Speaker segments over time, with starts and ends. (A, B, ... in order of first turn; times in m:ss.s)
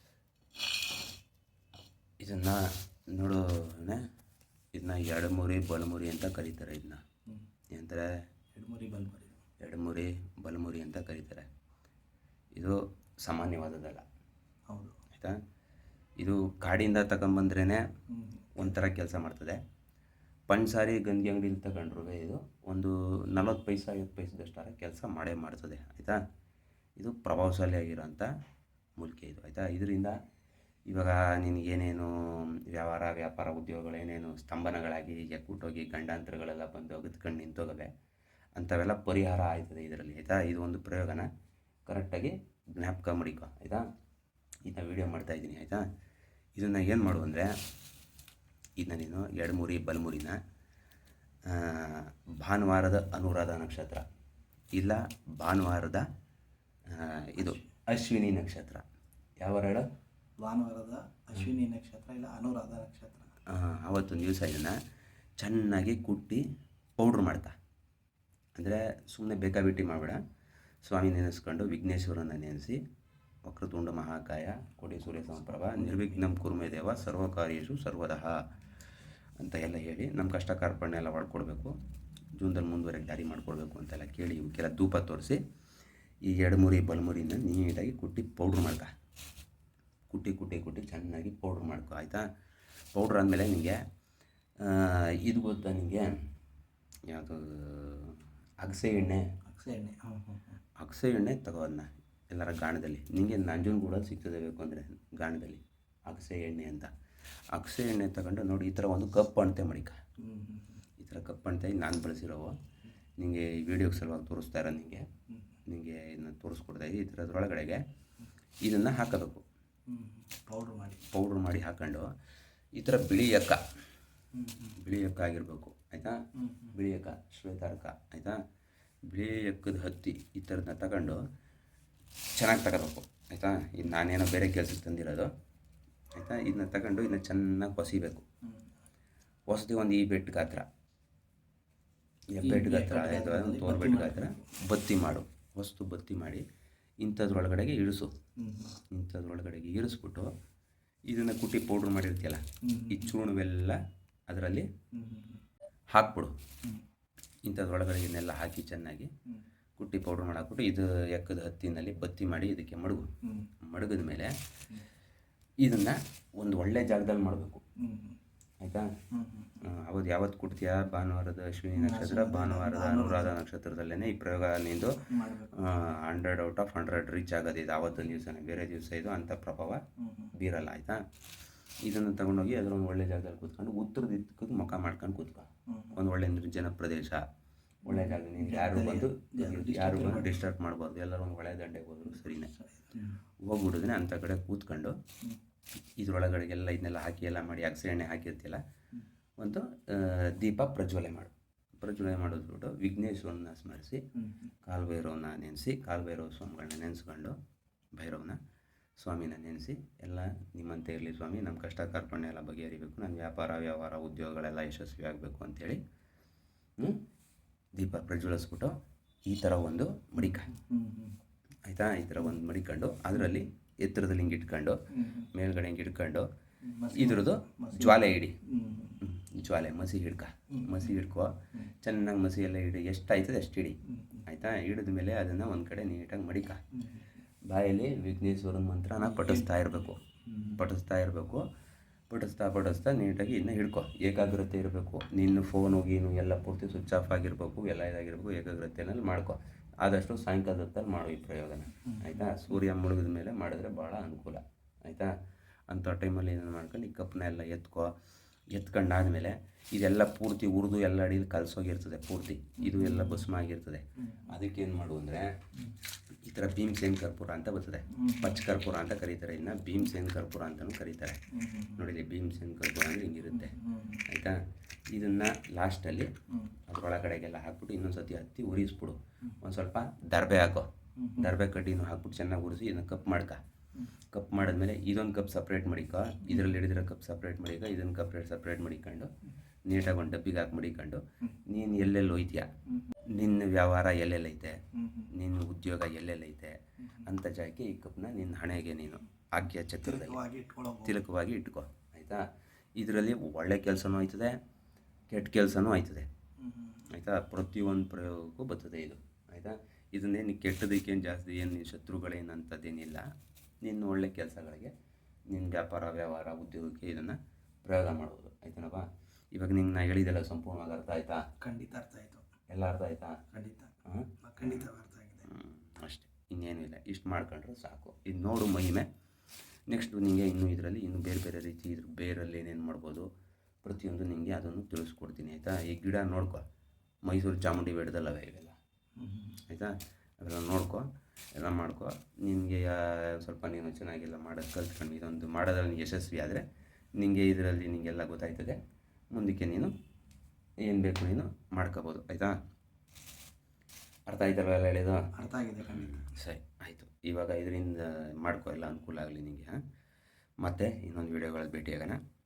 0:02.2-0:04.0 A
0:04.7-0:07.0 A
0:07.7-0:08.1 A
0:08.5-0:09.4 B
0:09.6-0:11.5 A
0:12.6-0:14.0 A
0:14.7-0:15.0 B
0:16.2-0:17.8 A
0:18.1-0:18.7 B
0:18.6-0:19.6 A
0:20.5-0:26.2 A
0:27.0-0:28.3 A
0:29.0-0:30.1 A
0:30.9-0:37.9 A
0:38.6-0:41.3 A
0:41.9-0:43.8 A
0:44.6-0:45.8 A
0:46.6-0:47.5 A
0:48.8-0:50.4 A
0:51.5-0:54.0 A
0:54.7-0:56.0 A
0:56.9-0:58.8 A
0:57.4-0:57.7 B
0:59.4-0:59.8 A
1:00.4-1:03.3 B
1:03.5-1:04.8 A
1:05.4-1:06.4 A
1:07.0-1:07.5 A
1:08.6-1:10.2 A
1:10.8-1:12.8 A
1:13.5-1:18.3 A
1:15.5-1:16.3 B
1:19.4-1:21.7 A
1:22.4-1:25.4 A
1:26.3-1:28.9 A
1:30.1-1:32.2 A
1:32.9-1:33.8 A
1:34.6-1:36.1 A
1:37.1-1:39.2 A
1:39.5-1:40.6 B
1:40.8-1:46.9 A
1:47.5-1:50.0 A
1:50.2-1:50.8 B
1:51.0-1:52.5 A
1:53.2-1:55.0 A
1:55.7-1:57.8 A
1:58.6-1:59.4 A
1:59.9-2:01.0 B
2:01.1-2:02.1 A
2:02.8-2:03.6 A
2:04.3-2:04.8 B
2:04.8-2:06.2 A
2:06.4-2:06.8 B
2:06.7-2:08.4 A
2:09.1-2:11.2 A
2:12.4-2:15.3 A
2:16.1-2:18.2 A
2:19.5-2:20.6 A
2:22.3-2:26.4 A
2:22.4-2:24.4 B
2:27.0-2:28.1 A
2:28.4-2:28.8 B
2:28.9-2:30.3 A
2:31.1-2:33.8 A
2:32.6-2:33.2 B
2:34.3-2:34.6 A
2:34.9-2:35.4 B
2:35.9-2:36.3 A
2:37.5-2:39.1 A
2:39.8-2:43.0 A
2:43.2-2:43.5 B
2:43.6-2:44.3 A
2:45.6-2:47.6 A
2:47.8-2:48.2 B
2:48.6-2:48.9 A
2:49.1-2:49.6 B
2:49.6-2:59.8 A
2:51.8-2:53.3 B
2:55.1-2:55.6 B
3:00.0-3:00.3 B
3:00.4-3:01.0 A
3:01.8-3:07.2 A
3:05.7-3:06.0 B
3:07.8-3:12.5 A
3:07.9-3:10.4 B
3:12.3-3:13.2 B
3:13.4-3:15.0 A
3:16.0-3:18.6 A
3:19.4-3:24.0 A
3:24.1-3:24.5 B
3:24.6-3:27.3 A
3:28.0-3:28.4 A
3:29.0-3:35.8 A
3:37.8-3:38.7 A
3:39.3-3:40.5 A
3:40.4-3:41.2 B
3:41.7-3:46.3 A
3:44.9-3:45.3 B
3:46.6-3:49.0 B
3:46.9-3:48.4 A
3:49.0-3:56.6 A
3:50.5-3:51.0 B
3:53.8-3:54.2 B
3:56.8-3:57.1 B
3:57.5-4:00.0 A
3:59.0-3:59.6 B
4:00.2-4:00.6 B
4:00.6-4:01.4 A
4:02.1-4:15.1 A
4:11.8-4:12.5 B
4:15.7-4:17.9 A
4:18.5-4:25.3 A
4:22.6-4:23.3 B
4:24.0-4:24.4 B
4:26.2-4:31.2 A
4:27.9-4:28.4 B
4:31.3-4:31.8 B
4:31.7-4:33.5 A
4:33.3-4:34.1 B
4:34.1-4:34.4 A
4:34.9-4:36.1 A
4:36.3-4:36.5 B
4:36.7-4:43.4 A
4:41.0-4:41.3 B
4:44.1-4:49.1 A
4:46.2-4:46.6 B
4:49.6-4:52.4 A
4:52.7-4:52.9 B
4:53.1-4:54.6 A
4:54.7-4:55.1 B
4:55.1-5:00.2 A
4:56.8-4:57.1 B
4:59.8-5:01.0 B
5:00.8-5:02.2 A
5:02.8-5:04.4 A
5:05.1-5:06.0 A
5:06.4-5:06.9 B
5:06.9-5:13.0 A
5:13.6-5:14.7 A
5:15.3-5:21.2 A
5:21.4-5:22.3 B
5:22.5-5:23.2 A
5:23.3-5:25.3 B
5:23.8-5:24.7 A
5:25.2-5:28.8 A
5:29.7-5:33.1 A
5:33.6-5:36.4 A
5:37.1-5:38.6 A
5:39.0-5:39.4 B
5:39.5-5:46.4 A
5:47.0-5:48.6 A
5:49.1-5:49.7 A
5:50.6-5:52.4 A
5:54.1-5:55.1 A
5:55.1-5:55.9 B
5:55.6-5:59.6 A
6:00.4-6:02.0 A